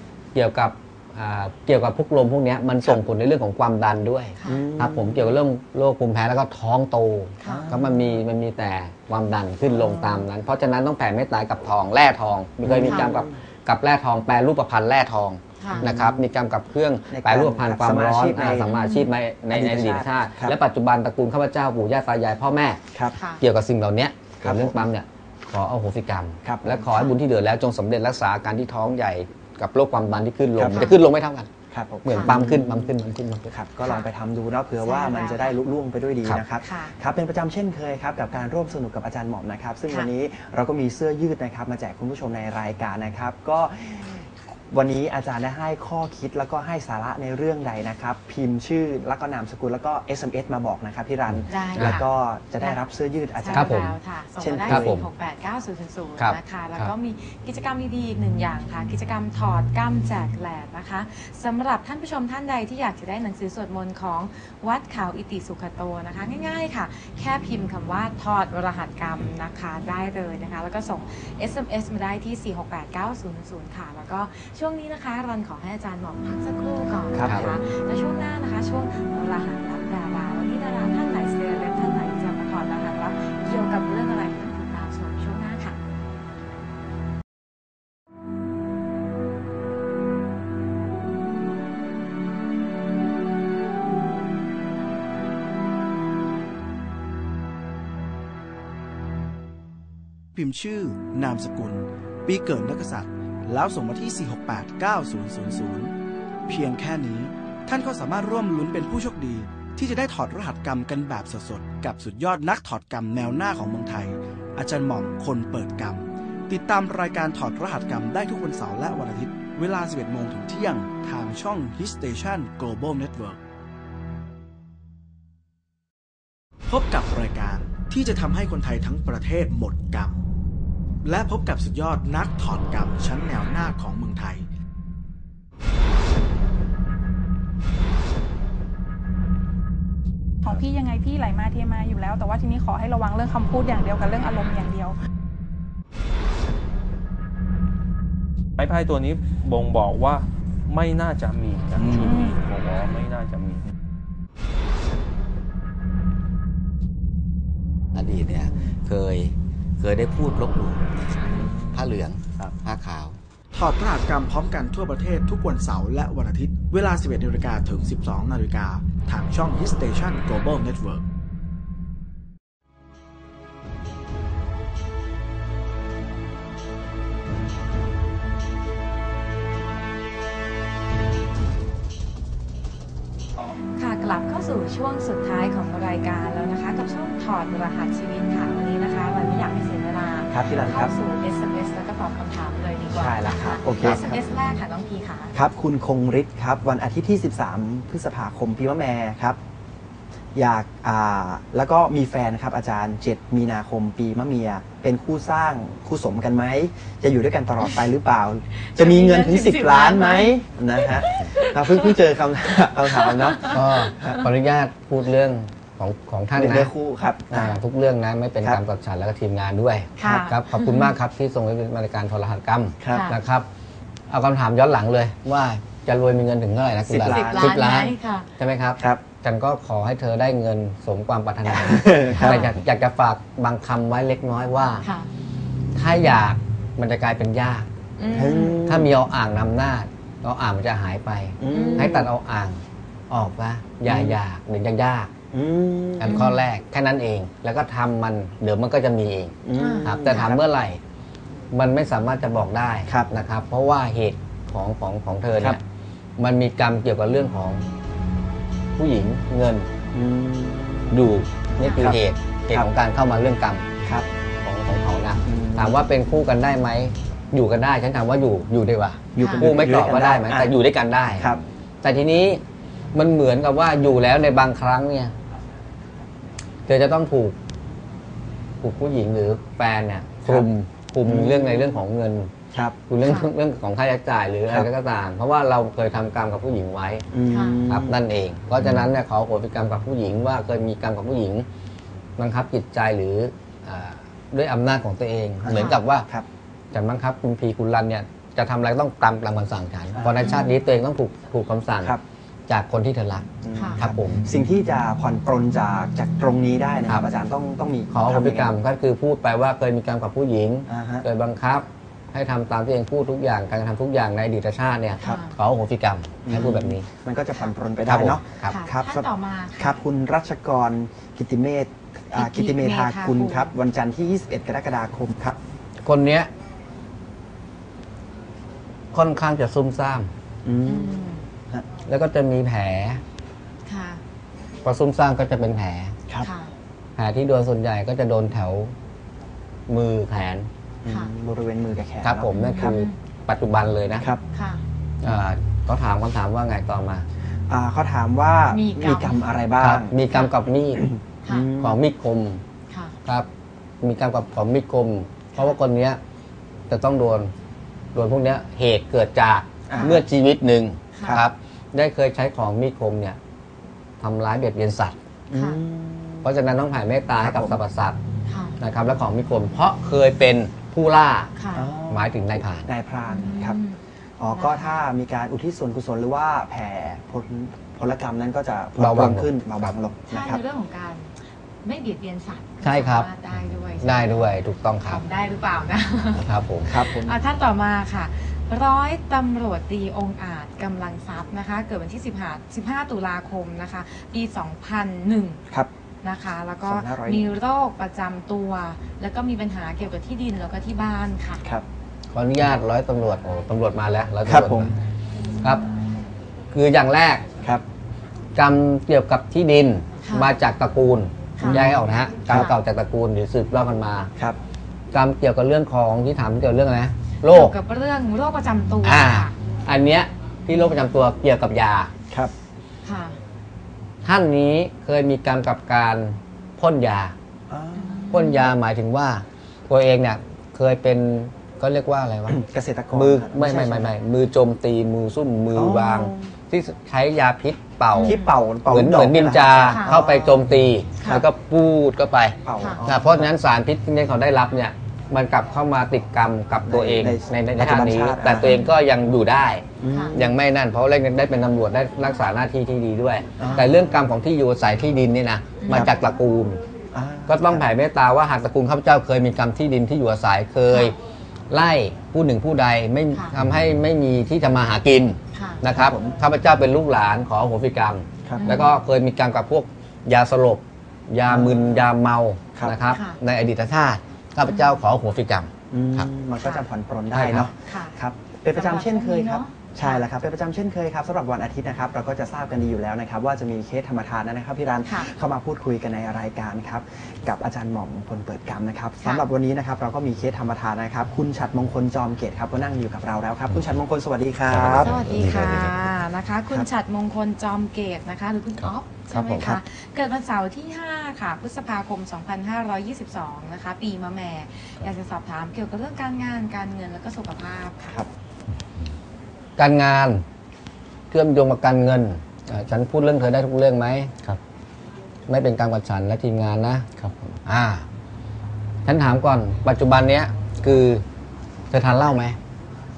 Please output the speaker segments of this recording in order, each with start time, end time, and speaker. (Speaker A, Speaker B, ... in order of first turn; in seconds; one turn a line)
Speaker A: 0.3-22.8
Speaker B: 4.4-4.6
Speaker C: 4.4-5.3
Speaker B: 7.4-7.7
Speaker C: 7.4-8.2
Speaker B: 9.7-10.2
Speaker C: 12.6-13.4
Speaker B: 15.6-15.8
Speaker C: 15.7-16.2
Speaker C: 17.1-18.7
Speaker B: 18.7-19.1
Speaker C: 19.5-20.6
Speaker B: 23.1-23.4
Speaker A: 23.4-31.5
Speaker C: 24.4-24.8
Speaker C: 26.4-26.9
Speaker B: 26.9-27.1
Speaker C: 30.6-30.9
Speaker C: 31.7-32.9
Speaker A: 32.0-33.5
Speaker B: 32.1-32.3
Speaker C: 33.5-53.7
Speaker B: 33.8-34.1
Speaker B: 34.8-35.6
Speaker B: 36.6-37.0
Speaker B: 51.5-52.0
Speaker B: 53.4-85.8
Speaker A: 53.5-54.0
Speaker C: 54.4-55.0
Speaker A: 54.7-55.0
Speaker A: 56.2-56.9
Speaker C: 77.1-77.6
Speaker D: 100.3-105.9
Speaker D: 106.5-123.4
Speaker D: 126.7-130.2
Speaker D: 131.0-134.5
Speaker E: 140.4-144.9
Speaker F: 148.6-153.7
Speaker D: 151.8-152.1
Speaker E: 152.0-152.4
Speaker A: 157.9-160.8
Speaker C: 161.2-161.8
Speaker A: 161.7-163.2
Speaker D: 163.5-171.0
Speaker B: 183.6-195.3
Speaker C: 190.3-190.9
Speaker C: 192.9-194.2
Speaker C: 195.3-199.4
Speaker C: 200.3-214.2
Speaker B: 208.5-211.9
Speaker B: 212.8-214.0
Speaker A: 213.5-216.7
Speaker C: 216.3-217.5
Speaker A: 217.3-223.4
Speaker B: 220.0-220.9
Speaker C: 222.8-223.1
Speaker B: 222.9-223.2
Speaker A: 224.1-234.8
Speaker C: 226.9-227.5
Speaker B: 227.0-228.3
Speaker C: 228.8-229.0
Speaker C: 231.4-232.5
Speaker B: 232.1-232.5
Speaker B: 234.8-235.1
Speaker A: 235.7-245.1
Speaker B: 238.0-238.6
Speaker C: 238.1-238.9
Speaker C: 241.4-242.1
Speaker B: 241.5-242.0
Speaker C: 243.8-244.2
Speaker C: 245.3-246.3
Speaker A: 246.0-250.8
Speaker B: 246.1-246.4
Speaker C: 249.4-250.4
Speaker B: 249.6-250.3
Speaker A: 251.5-255.6
Speaker C: 252.8-253.1
Speaker A: 256.2-257.6
Speaker A: 258.8-259.7
Speaker C: 259.9-261.1
Speaker A: 260.9-263.8
Speaker B: 261.6-261.8
Speaker C: 261.7-262.0
Speaker A: 264.4-272.4
Speaker C: 265.2-265.8
Speaker C: 269.1-270.5
Speaker B: 269.2-269.4
Speaker C: 271.2-271.4
Speaker A: 272.9-275.1
Speaker A: 276.7-277.4
Speaker A: 278.6-282.3
Speaker C: 281.0-281.8
Speaker C: 282.5-282.8
Speaker A: 282.9-287.1
Speaker B: 283.0-283.3
Speaker C: 287.1-288.0
Speaker B: 287.3-287.6
Speaker A: 287.7-291.4
Speaker A: 292.2-296.1
Speaker C: 295.4-296.3
Speaker B: 295.5-295.8
Speaker A: 296.7-301.9
Speaker C: 299.9-300.5
Speaker B: 300.2-300.5
Speaker A: 302.5-304.3
Speaker C: 303.4-308.6
Speaker B: 303.5-303.8
Speaker A: 307.9-316.9
Speaker C: 310.7-311.1
Speaker B: 315.0-315.4
Speaker C: 316.2-325.4
Speaker A: 317.9-318.6
Speaker B: 318.4-319.8
Speaker B: 322.1-323.5
Speaker A: 325.8-326.3
Speaker A: 328.9-330.1
Speaker C: 330.4-331.7
Speaker B: 330.6-331.3
Speaker A: 331.8-333.0
Speaker B: 333.6-334.0
Speaker A: 334.6-335.9
Speaker B: 336.2-336.5
Speaker A: 337.0-338.7
Speaker A: 339.7-340.5
Speaker C: 340.8-342.7
Speaker A: 342.0-344.1
Speaker B: 342.3-342.9
Speaker B: 344.3-344.6
Speaker A: 345.0-347.1
Speaker C: 347.5-349.9
Speaker B: 348.5-349.3
Speaker A: 349.6-350.9
Speaker C: 350.8-351.8
Speaker A: 351.6-352.4
Speaker A: 353.8-356.0
Speaker A: 356.7-357.3
Speaker A: 357.9-363.2
Speaker C: 359.7-360.0
Speaker B: 359.7-360.0
Speaker B: 360.9-361.2
Speaker A: 364.0-365.0
Speaker C: 365.3-366.3
Speaker B: 365.3-365.6
Speaker A: 366.2-368.0
Speaker C: 367.2-367.6
Speaker B: 368.2-368.6
Speaker A: 368.6-371.3
Speaker B: 371.4-371.7
Speaker C: 371.5-373.6
Speaker A: 371.9-372.7
Speaker B: 373.1-374.8
Speaker C: 374.2-380.4
Speaker A: 378.8-379.3
Speaker B: 380.1-384.3
Speaker A: 382.6-383.1
Speaker A: 383.8-385.0
Speaker B: 384.8-395.4
Speaker A: 386.1-386.7
Speaker C: 386.6-387.1
Speaker B: 396.0-401.4
Speaker C: 396.6-397.3
Speaker A: 402.1-404.7
Speaker C: 404.2-404.7
Speaker A: 406.5-407.2
Speaker A: 408.4-414.1
Speaker B: 410.0-410.3
Speaker B: 411.4-411.7
Speaker C: 411.4-411.7
Speaker B: 412.3-412.6
Speaker A: 414.9-417.5
Speaker B: 417.3-419.3
Speaker A: 418.8-421.9
Speaker B: 422.8-423.2
Speaker A: 424.0-427.1
Speaker C: 427.5-428.1
Speaker B: 427.7-428.5
Speaker A: 428.1-432.4
Speaker C: 432.3-433.9
Speaker A: 432.9-456.6
Speaker C: 435.5-436.3
Speaker B: 437.9-438.3
Speaker C: 438.0-440.5
Speaker B: 441.0-441.2
Speaker C: 442.4-443.3
Speaker C: 446.6-448.6
Speaker B: 448.4-448.7
Speaker C: 449.8-450.4
Speaker B: 449.9-450.1
Speaker C: 453.4-453.8
Speaker B: 453.4-453.7
Speaker B: 455.6-456.0
Speaker C: 456.9-457.7
Speaker A: 457.3-460.9
Speaker B: 460.7-460.9
Speaker A: 461.5-476.1
Speaker B: 465.3-465.6
Speaker C: 465.6-466.2
Speaker C: 468.2-468.6
Speaker B: 468.4-468.8
Speaker C: 471.2-471.9
Speaker B: 472.9-473.2
Speaker B: 474.5-474.8
Speaker C: 475.7-494.9
Speaker A: 477.1-477.5
Speaker B: 477.5-478.0
Speaker B: 478.5-480.1
Speaker B: 484.8-485.1
Speaker B: 489.0-489.3
Speaker G: 494.4-495.9
Speaker B: 494.7-508.1
Speaker C: 499.1-499.6
Speaker G: 508.5-508.9
Speaker A: 509.6-510.2
Speaker A: 511.1-514.1
Speaker A: 515.3-516.9
Speaker G: 517.0-517.4
Speaker A: 517.5-517.8
Speaker A: 518.8-521.0
Speaker A: 521.7-522.4